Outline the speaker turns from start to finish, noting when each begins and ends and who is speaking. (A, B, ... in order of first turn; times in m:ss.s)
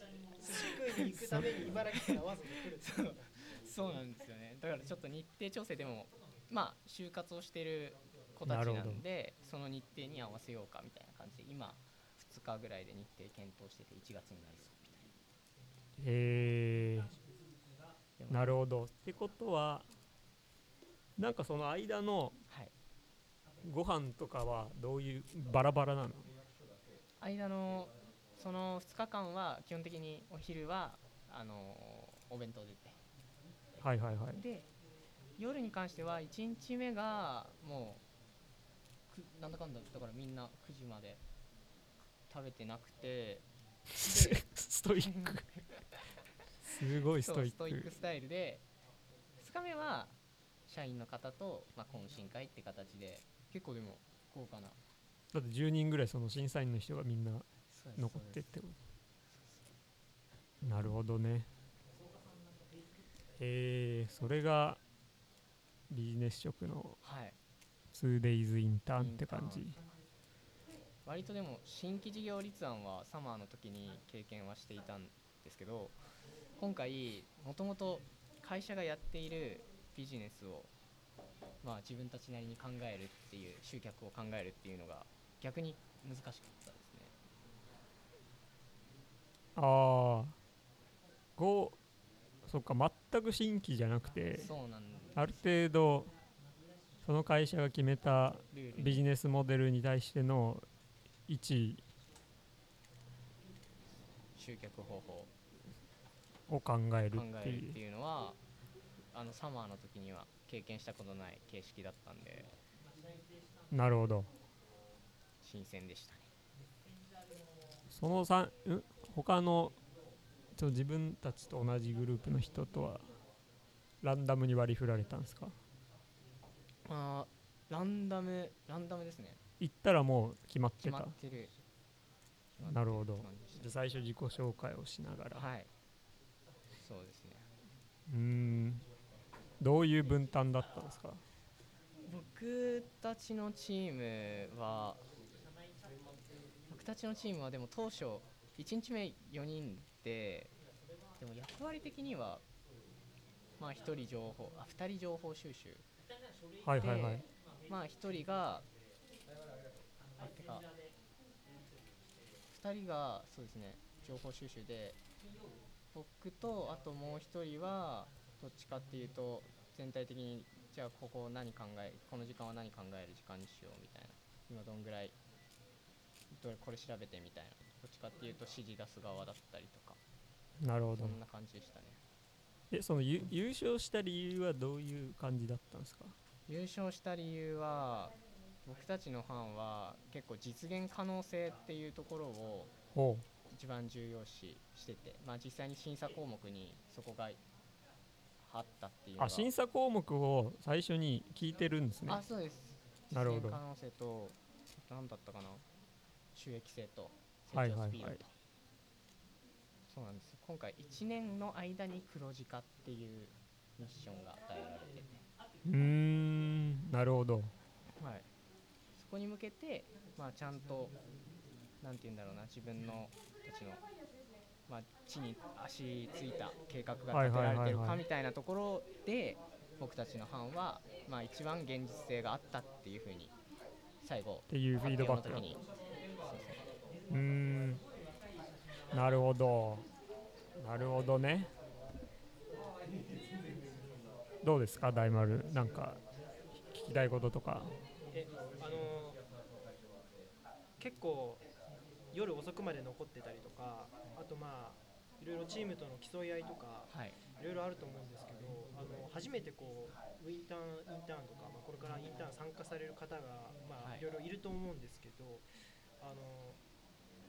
0:00.4-0:03.3 A
0:00.6-0:15.1 B
0:08.4-0:09.0 C
0:16.0-0:17.1 C
0:18.2-0:18.6 B
0:18.3-0:19.9 C
0:21.2-0:22.4 C
0:23.6-0:26.3 C
0:27.2-0:33.0 B
0:33.8-0:34.4 C
0:34.3-0:34.7 B
0:35.4-0:38.0 B
0:39.1-0:41.2 B
0:42.3-0:43.4 B
0:44.0-0:45.4 C
0:44.0-0:44.4 B
0:45.0-0:45.8 B
0:46.6-0:47.9 C
0:47.0-0:48.6 B
0:49.4-0:50.1 B
0:50.7-0:54.8 B
0:55.3-0:57.4 C
0:57.7-0:58.4 B
0:58.0-0:58.8 C
0:59.3-0:59.6 B
1:00.6-1:01.5 C
1:03.4-1:04.8 C
1:05.9-1:07.0 C
1:07.0-1:07.4 B
1:07.9-1:09.8 C
1:09.0-1:09.8 B
1:11.0-1:16.0 B
1:16.6-1:20.7 B
1:21.6-1:27.1 B
1:29.6-1:30.4 C
1:31.4-1:31.8 C
1:32.4-1:34.5 C
1:34.3-1:35.3 B
1:35.1-1:36.1 C
1:37.0-1:40.6 C
1:38.5-1:39.0 B
1:41.3-1:41.8 C
1:44.4-1:45.3 B
1:46.5-1:47.8 C
1:47.1-1:48.4 B
1:49.1-1:52.5 B
1:53.7-1:54.3 C
1:55.4-1:56.3 B
1:57.9-1:59.8 C
2:00.5-2:03.1 C
2:04.0-2:05.6 C
2:06.8-2:09.4 B
2:09.6-2:11.2 C
2:10.8-2:11.5 B
2:12.5-2:13.7 B
2:12.6-2:15.5 C
2:15.3-2:15.7 B
2:16.8-2:17.4 B
2:18.1-2:18.8 C
2:19.6-2:21.2 C
2:22.0-2:25.0 B
2:26.7-2:30.5 B
2:31.2-2:32.4 B
2:33.6-2:35.8 B
2:36.6-2:37.2 C
2:36.8-2:38.6 B
2:40.2-2:40.6 B
2:42.5-2:45.0 B
2:45.9-2:55.2 B
2:56.3-3:00.0 B
3:00.6-3:01.2 C
3:01.0-3:02.0 B
3:02.7-3:06.1 C
3:06.5-3:12.7 B
3:12.9-3:13.2 C
3:13.5-3:17.4 B
3:18.4-3:19.5 B
3:19.2-3:22.2 C
3:22.1-3:25.6 B
3:23.1-3:23.6 C
3:26.3-3:28.3 B
3:27.5-3:28.2 C
3:29.9-3:35.2 B
3:35.6-3:37.5 C
3:38.0-3:38.2 B
3:39.0-3:40.9 B
3:41.8-3:43.8 B
3:44.7-3:53.3 B
3:47.1-3:48.0 C
3:54.0-3:55.6 B
3:54.5-3:55.5 C
3:56.2-3:56.6 B
3:57.1-3:57.8 C
3:58.9-3:59.8 C
4:00.6-4:01.5 C
4:04.4-4:06.0 C
4:06.6-4:07.7 C
4:08.1-4:09.2 A
4:10.8-4:11.4 A
4:12.1-4:25.5 A
4:16.9-4:17.2 B
4:26.0-4:26.6 A